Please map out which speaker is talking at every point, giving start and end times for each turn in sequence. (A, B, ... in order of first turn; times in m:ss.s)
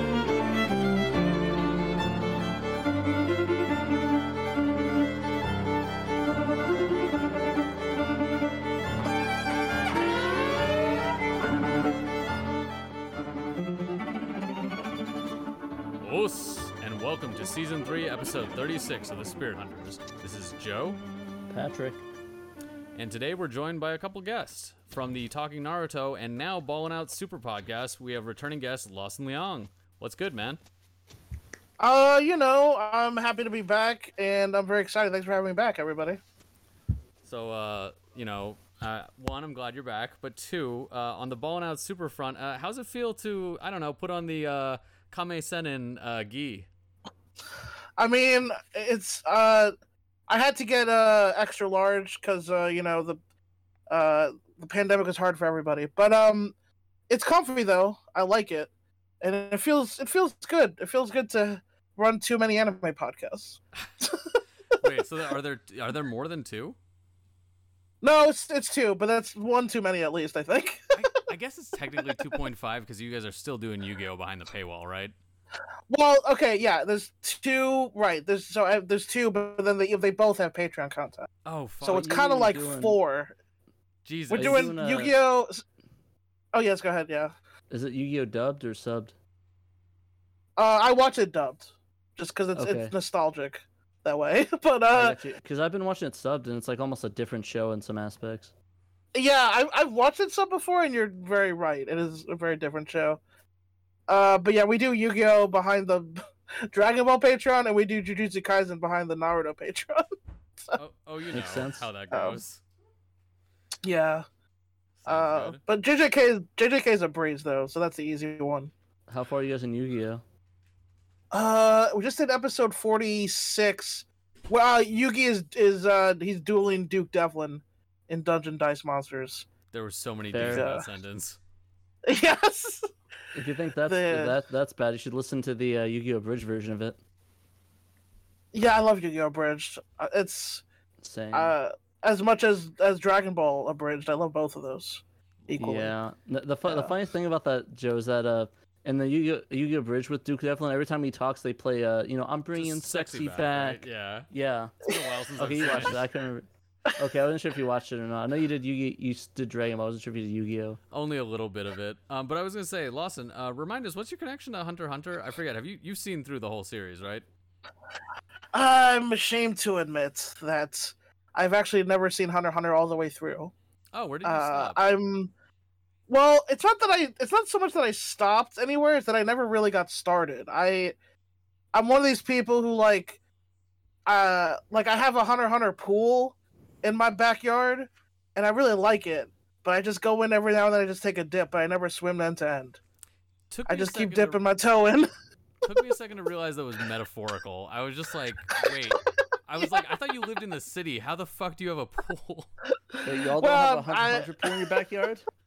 0:16.0-0:21.0 A
0:21.5-0:22.0 B
0:22.9-0:30.6 A
0:31.8-0:36.2 C
0:37.2-0:46.7 A
0:48.0-0:49.7 C
0:50.3-0:53.2 C
0:53.9-0:56.5 C
0:57.1-0:58.7 C
0:59.2-1:03.6 C
1:04.8-1:06.8 A
1:08.0-1:10.9 C
1:10.9-1:15.1 A
1:15.9-1:21.3 C
1:21.4-1:22.1 A
1:21.8-1:23.3 C
1:21.8-1:23.0 B
1:24.0-1:24.7 A
1:24.3-1:25.6 C
1:24.3-1:25.1 B
1:26.5-1:27.3 C
1:27.7-1:29.1 B
1:30.6-1:35.2 C
1:32.5-1:32.9 B
1:34.9-1:38.5 B
1:39.1-1:43.2 C
1:44.1-1:50.0 C
1:50.8-1:52.6 A
1:51.3-1:51.9 B
1:52.1-1:52.4 C
1:53.8-1:54.2 C
1:55.0-1:55.6 A
1:55.1-1:58.7 C
1:59.1-2:00.2 B
2:01.3-2:09.5 C
2:09.7-2:11.4 A
2:10.3-2:10.7 B
2:10.5-2:10.8 C
2:12.0-2:12.9 C
2:13.3-2:17.0 B
2:13.9-2:14.3 C
2:18.5-2:20.6 C
2:21.0-2:21.5 B
2:21.3-2:25.9 C
2:25.6-2:34.7 B
2:26.7-2:26.9 C
2:32.5-2:34.3 A
2:34.8-2:36.0 A
2:35.4-2:36.4 B
2:37.0-2:40.8 B
2:40.9-2:47.2 A
2:48.5-2:53.5 C
2:53.9-2:55.0 A
2:54.2-2:55.3 C
2:56.1-3:00.9 C
3:01.7-3:03.2 C
3:04.0-3:12.8 C
3:13.5-3:14.7 A
3:13.7-3:15.1 C
3:15.6-3:22.5 A
3:23.0-3:25.2 B
3:23.4-3:24.6 C